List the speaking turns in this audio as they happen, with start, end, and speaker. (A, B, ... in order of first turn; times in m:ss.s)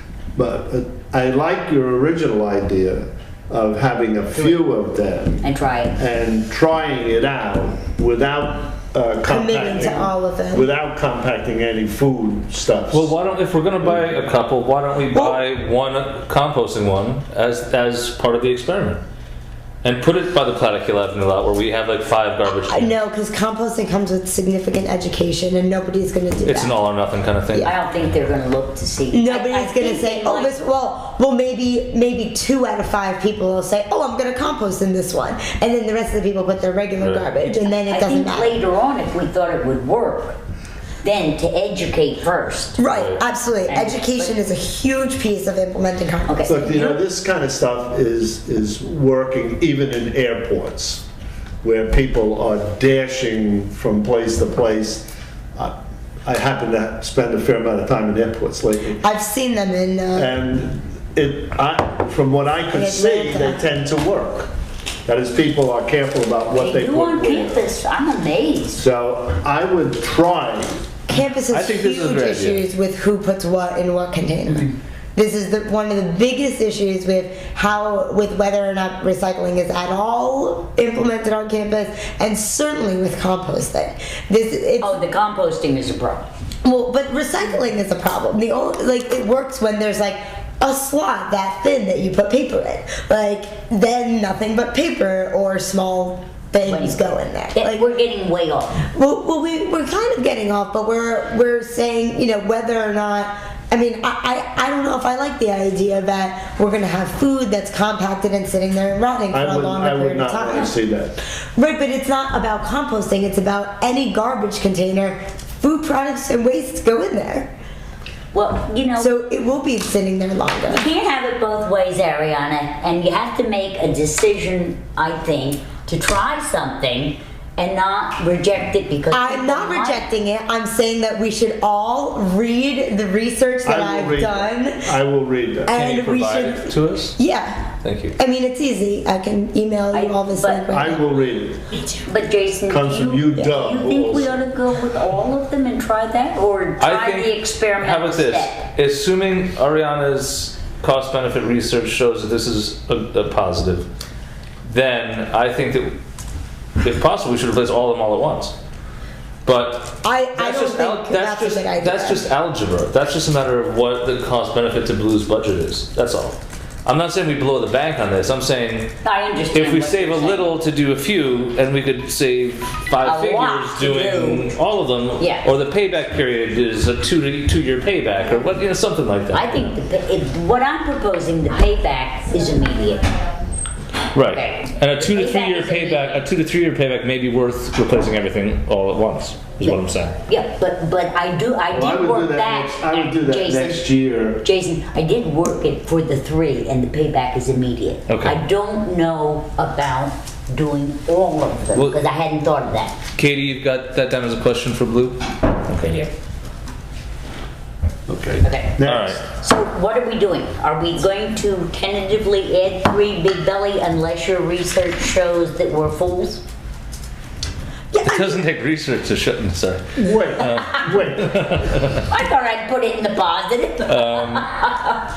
0:00.4-0:05.4 A
0:04.3-0:04.6 B
0:05.4-0:06.0 B
0:06.0-0:13.1 A
0:09.3-0:10.7 C
0:12.9-0:19.0 D
0:13.8-0:14.1 A
0:15.1-0:15.4 C
0:19.8-0:23.0 D
0:22.5-0:26.8 C
0:26.4-0:27.8 D
0:27.6-0:30.6 B
0:29.1-0:38.6 C
0:37.0-0:37.3 D
0:37.5-0:40.4 B
0:41.0-0:42.8 B
0:42.8-0:46.8 C
0:42.9-0:43.2 D
0:43.7-0:44.4 B
0:46.3-0:47.0 B
0:46.4-0:51.0 A
0:51.6-0:59.0 A
0:59.0-1:00.3 C
1:00.1-1:04.5 A
1:02.7-1:03.6 C
1:05.1-1:07.7 A
1:06.6-1:08.8 B
1:08.7-1:10.9 A
1:11.1-1:25.0 C
1:11.5-1:12.7 D
1:14.5-1:14.8 B
1:24.8-1:26.3 B
1:26.6-1:37.9 C
1:36.6-1:38.8 B
1:38.8-1:50.7 C
1:49.3-1:51.2 A
1:51.6-1:57.5 C
1:58.3-1:59.1 B
1:59.0-2:00.8 C
2:00.7-2:10.1 B
2:09.1-2:14.9 C
2:13.6-2:15.7 A
2:15.7-2:21.2 C
2:15.7-2:17.2 D
2:17.8-2:18.2 D
2:19.9-2:20.7 B
2:20.7-2:21.6 A
2:21.7-2:28.6 B
2:22.7-2:24.4 A
2:26.8-2:33.9 D
2:34.6-2:36.0 D
2:36.8-2:38.6 D
2:39.4-2:48.9 D
2:40.0-2:42.3 C
2:49.0-2:50.5 B
2:49.5-2:59.8 D
2:53.0-2:54.5 B
2:55.2-2:55.6 B
2:59.3-3:03.1 B
3:04.1-3:10.2 D
3:04.3-3:06.3 B
3:10.3-3:13.8 B
3:11.7-3:14.4 A
3:14.4-3:23.0 B
3:18.1-3:18.4 D
3:23.2-3:26.1 D
3:28.1-3:29.2 A
3:28.4-3:28.8 B
3:28.8-3:29.2 D
3:29.4-3:36.4 B
3:37.9-3:38.4 C
3:38.0-3:42.0 D
3:40.0-3:41.8 A
3:42.1-3:45.0 B
3:43.8-3:44.5 D